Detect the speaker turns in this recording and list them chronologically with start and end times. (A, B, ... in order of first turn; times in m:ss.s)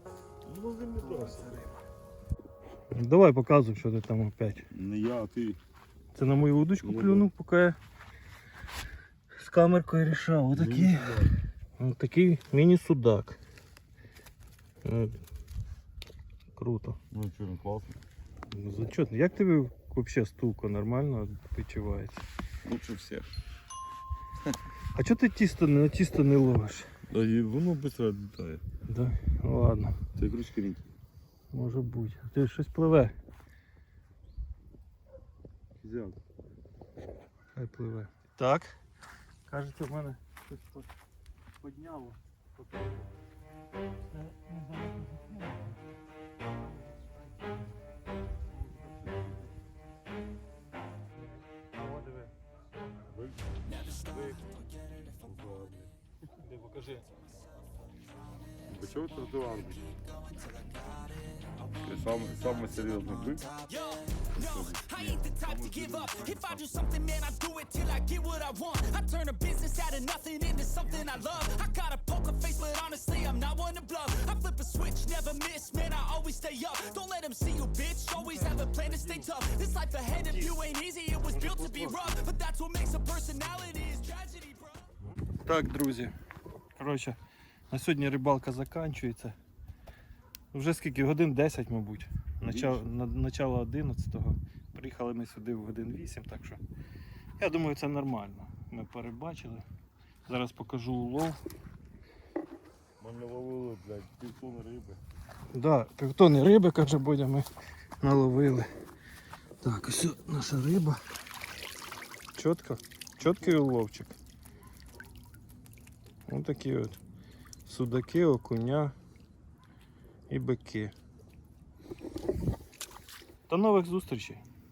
0:00.4-0:01.6 A
0:01.0-0:01.8 B
0:02.9-0:04.6 B
0:04.7-0:05.6 A
0:06.1-0:07.8 B
0:06.8-0:07.3 A
0:09.3-0:11.2 B
0:10.5-0:11.3 A
0:11.8-0:13.4 B
0:14.8-0:15.2 B
0:16.5-0:17.0 B
0:17.1-0:18.0 A
0:18.5-0:22.2 B
0:22.6-0:23.3 A
0:24.9-0:26.9 B
0:27.1-0:28.6 A
0:28.9-0:30.0 B
0:30.2-0:30.9 A
0:31.5-0:33.1 B
0:35.8-0:36.2 A
0:37.6-0:38.8 B
0:39.5-0:40.9 B
0:41.6-0:43.1 B
0:44.1-0:45.9 B
0:46.9-0:47.2 B
0:48.5-0:49.5 B
0:51.8-0:52.3 B
0:53.1-0:54.4 A
0:53.7-0:55.1 C
0:55.2-0:55.9 A
0:56.4-0:57.1 B
0:58.7-1:00.0 A
1:01.8-1:03.5 A
1:03.6-1:24.9 C
1:04.4-1:06.6 A
1:10.8-1:11.4 B
1:18.1-1:19.3 B
1:20.2-1:20.6 B
1:21.3-1:22.2 B
1:25.4-1:26.1 B
1:26.8-1:27.2 B
1:27.7-1:29.4 B
1:30.5-1:36.6 B
1:32.5-1:32.8 A
1:37.4-1:39.6 B
1:40.3-1:41.4 B
1:43.0-1:45.0 A
1:45.5-1:47.5 B
1:48.0-1:48.7 B
1:49.6-1:51.0 B
1:52.4-1:54.2 B
1:53.3-1:53.5 A
1:56.3-1:57.0 B
1:57.6-1:58.9 B
2:00.3-2:00.9 B
2:03.5-2:04.4 B